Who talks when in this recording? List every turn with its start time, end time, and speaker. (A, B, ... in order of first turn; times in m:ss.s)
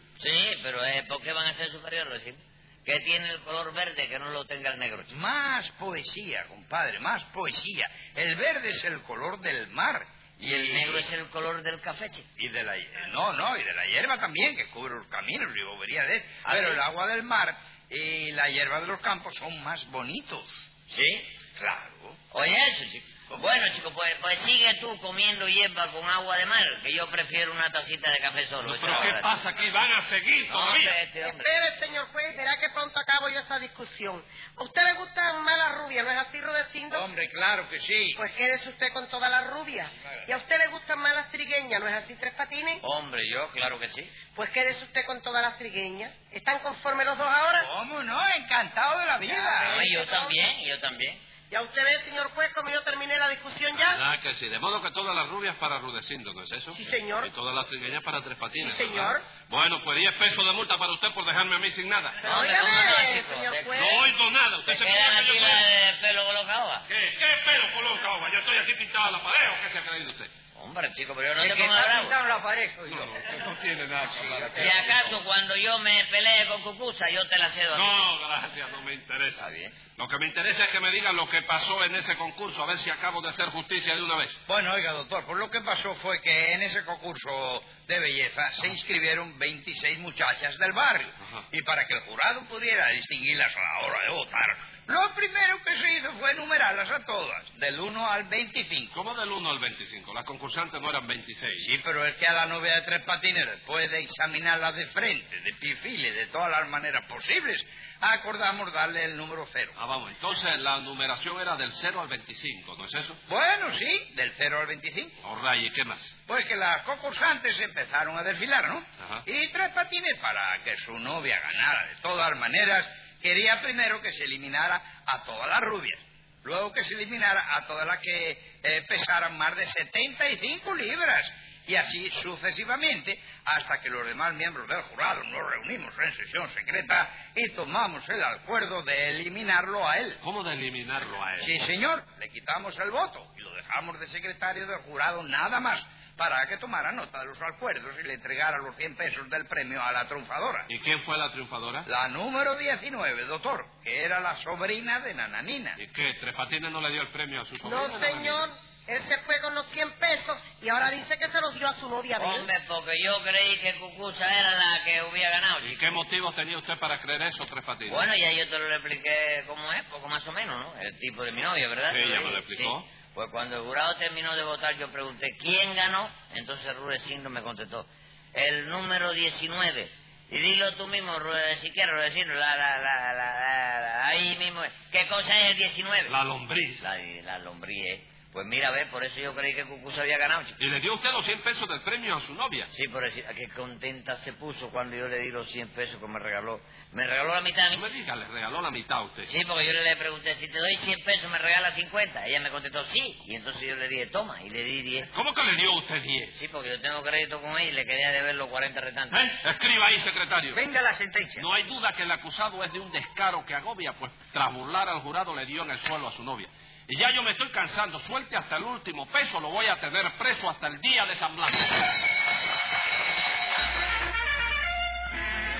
0:00.2-0:05.1 A
0:05.1-0:11.1 B
0:10.4-0:12.3 A
0:12.4-0:20.7 B
0:16.4-0:16.8 A
0:20.9-0:21.3 A
0:21.6-0:22.2 B
0:22.3-0:29.4 A
0:28.6-0:31.0 C
0:30.5-0:31.6 A
0:31.2-0:37.1 D
0:36.9-0:38.2 B
0:38.2-0:42.8 D
0:42.8-0:44.2 A
0:44.3-0:47.7 D
0:47.5-0:49.8 B
0:49.2-0:50.4 D
0:49.6-0:51.2 A
0:51.5-0:54.0 D
0:53.7-1:02.3 C
0:56.7-0:57.3 D
0:58.6-0:59.3 D
1:02.2-1:03.9 A
1:02.3-1:04.1 D
1:03.7-1:05.7 C
1:04.7-1:06.9 A
1:06.9-1:10.3 C
1:10.6-1:12.2 A
1:11.4-1:13.2 E
1:12.9-1:15.2 C
1:14.2-1:14.5 E
1:14.4-1:18.1 A
1:17.7-1:24.4 C
1:19.4-1:19.8 A
1:24.5-1:39.0 B
1:38.9-1:41.7 C
1:41.6-1:49.8 B
1:49.8-1:53.2 C
1:53.3-1:55.2 B
1:55.2-1:56.1 C
1:56.3-2:20.2 B
2:20.2-2:21.6 C
2:21.4-2:30.7 B
2:30.7-2:31.9 C
2:31.9-2:35.8 B
2:35.8-2:38.5 C
2:37.6-2:42.5 D
2:42.2-2:45.9 A
2:45.6-2:48.1 C
2:47.9-3:06.2 A
2:51.9-2:52.9 C
3:06.1-3:06.9 C
3:06.8-3:10.6 A
3:10.6-3:12.7 C
3:12.7-3:17.9 A
3:17.7-3:19.3 C
3:19.2-3:25.1 A
3:25.1-3:26.4 C
3:26.3-3:29.3 A
3:29.1-3:30.6 C
3:30.5-3:31.5 E
3:31.4-3:41.9 C